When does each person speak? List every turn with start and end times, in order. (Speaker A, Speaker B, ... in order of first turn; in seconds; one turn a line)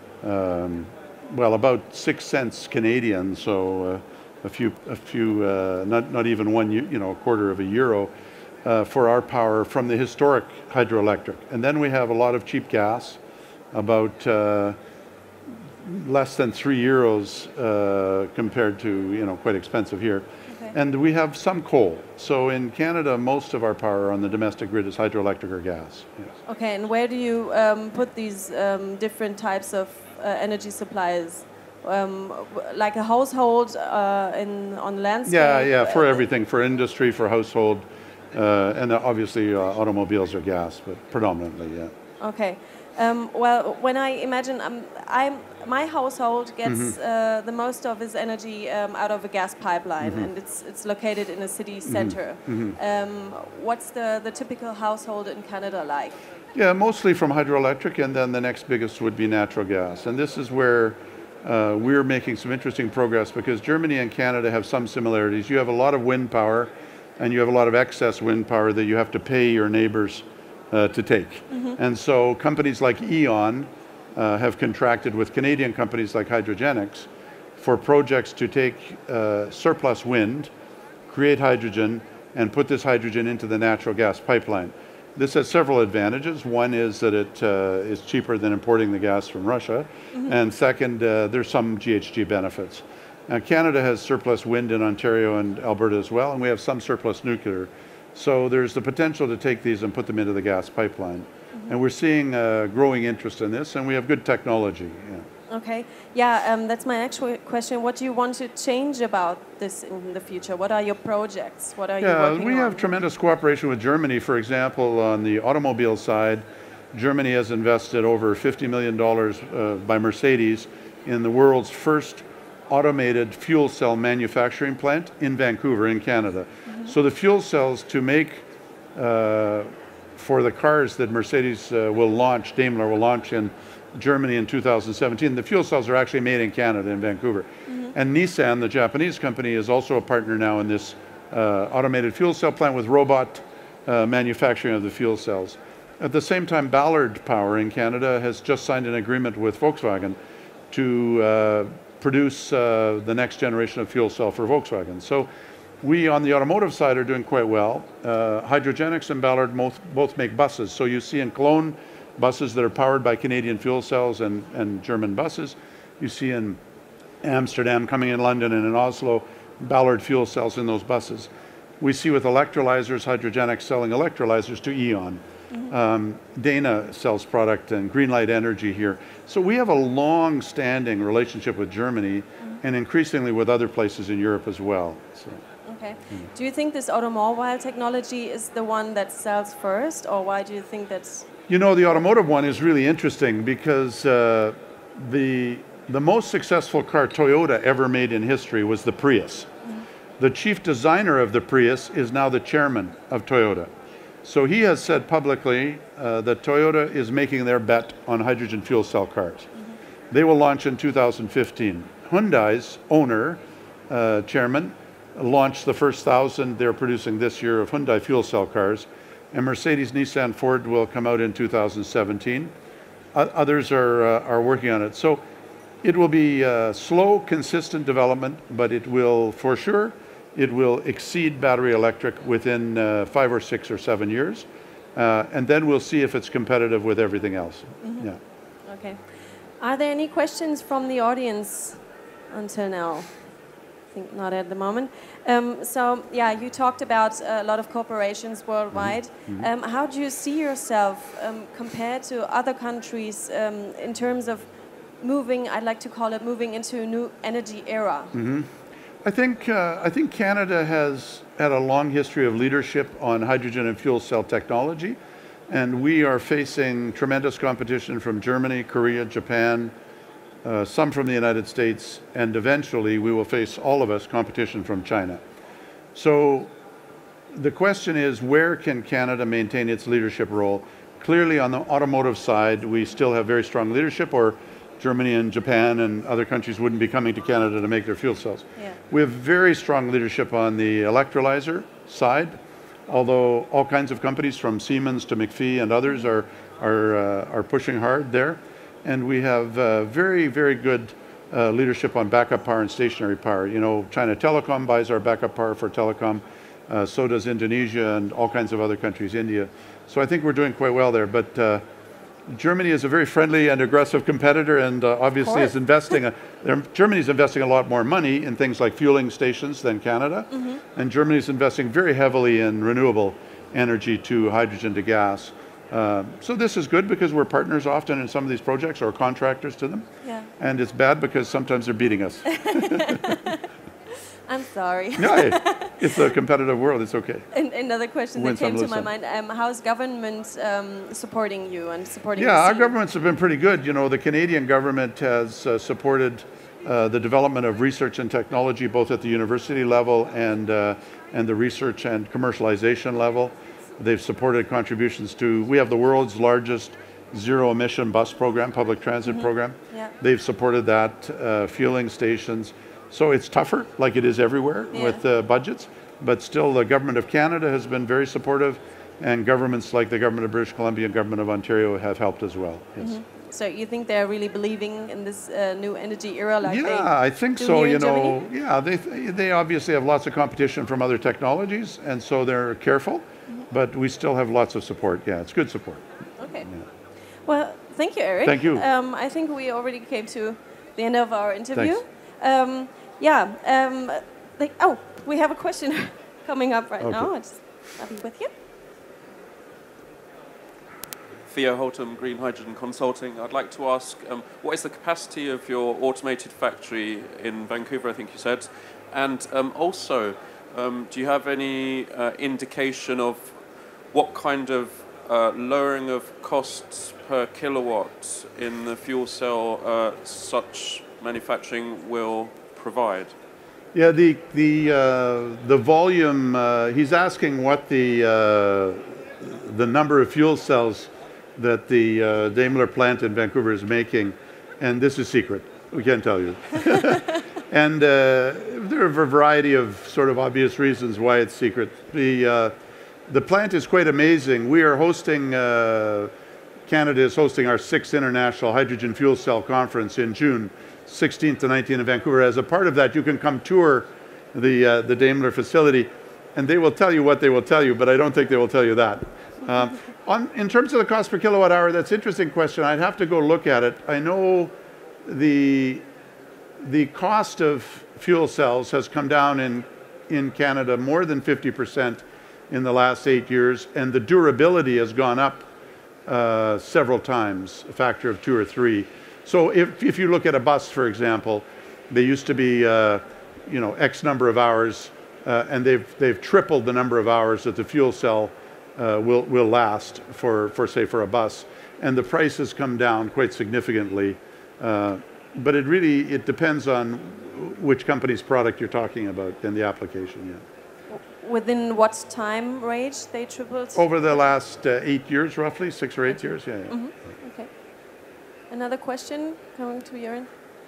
Speaker A: 0.2-8.1
Speaker A: 8.6-13.2
Speaker A: 13.7-14.8
Speaker A: 15.8-26.3
Speaker B: 20.5-20.8
Speaker B: 26.5-36.2
Speaker A: 35.3-41.9
Speaker B: 42.2-56.2
Speaker A: 46.6-47.0
Speaker A: 50.0-50.3
Speaker A: 51.9-52.8
Speaker A: 56.5-80.5
Speaker B: 71.5-71.8
Speaker A: 81.1-105.3
Speaker B: 105.5-112.9
Speaker A: 112.0-128.4
Speaker B: 126.7-126.9
Speaker A: 128.9-150.2
Speaker B: 137.7-137.9
Speaker A: 150.7-155.3
Speaker A: 155.8-166.6
Speaker A: 167.2-185.4
Speaker B: 185.7-191.3
Speaker A: 191.5-199.5
Speaker A: 200.2-203.7
Speaker A: 204.2-209.5
Speaker A: 210.1-222.5
Speaker A: 223.1-225.2
Speaker A: 225.8-238.2
Speaker B: 238.7-239.0
Speaker B: 239.6-241.8
Speaker B: 242.3-243.2
Speaker B: 243.9-254.5
Speaker A: 248.7-249.5
Speaker B: 255.0-258.1
Speaker A: 258.1-265.0
Speaker A: 265.5-269.7
Speaker A: 270.4-275.2
Speaker A: 275.9-276.5
Speaker A: 277.3-292.4
Speaker A: 292.9-311.6
Speaker A: 312.3-329.8
Speaker B: 320.3-320.6
Speaker B: 330.0-330.3
Speaker A: 330.4-333.1
Speaker B: 332.3-333.4
Speaker B: 334.3-335.8
Speaker A: 335.0-337.3
Speaker B: 337.3-342.8
Speaker A: 338.2-338.9
Speaker A: 342.2-373.0
Speaker B: 359.1-359.9
Speaker B: 364.7-365.0
Speaker B: 372.8-378.2
Speaker A: 376.4-385.8
Speaker B: 386.2-386.5
Speaker B: 387.2-398.3
Speaker A: 388.2-388.7
Speaker A: 396.8-397.1
Speaker C: 401.3-413.4
Speaker C: 413.9-423.1
Speaker A: 423.7-442.5
Speaker A: 443.1-446.1
Speaker A: 446.7-464.5
Speaker A: 465.0-465.8
Speaker A: 466.6-475.5
Speaker A: 476.1-500.4
Speaker B: 500.9-504.3
Speaker A: 503.8-506.8
Speaker B: 506.7-507.5
Speaker B: 508.5-510.3